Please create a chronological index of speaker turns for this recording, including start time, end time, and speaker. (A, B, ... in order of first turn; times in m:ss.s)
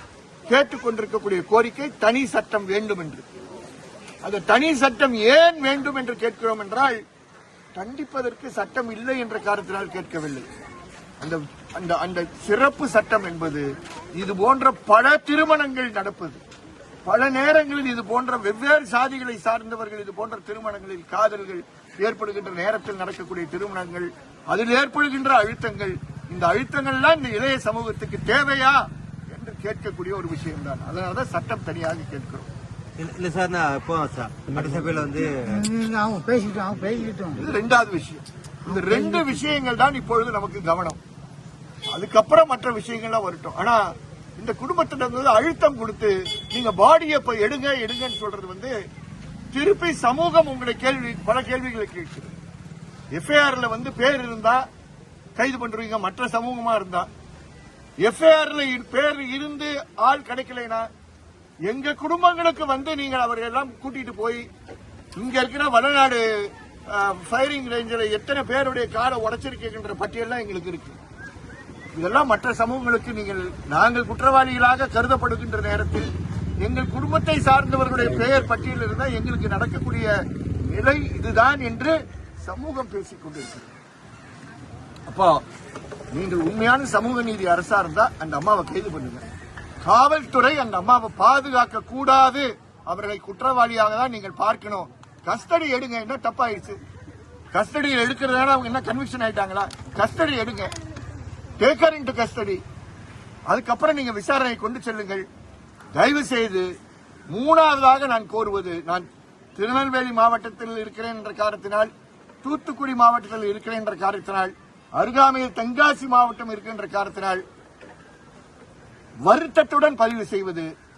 0:00.5-0:03.3 A
0:04.2-0:07.0 A
0:07.8-0:10.5 A
0:11.2-0:16.4 A
0:17.0-0:32.5 A
0:33.0-0:35.6 B
0:35.4-0:37.4 C
0:37.3-0:41.0 A
0:38.7-0:39.3 C
0:41.9-0:43.8 A
0:44.4-0:48.7 A
0:49.5-0:52.3 A
0:53.1-0:54.6 A
0:55.4-0:57.1 A
0:58.0-1:00.9 A
1:01.7-1:04.4 A
1:05.2-1:11.0 A
1:11.9-1:16.1 A
1:16.6-1:20.1 A
1:20.6-1:23.7 A
1:25.1-1:25.4 A
1:26.1-1:29.2 A
1:29.8-1:36.8 A
1:37.5-1:40.7 A
1:41.6-1:42.6 A
1:43.5-1:45.2 A
1:45.9-1:46.7 A
1:47.3-1:51.9 A
1:52.4-1:57.4 A
1:59.2-2:00.7 A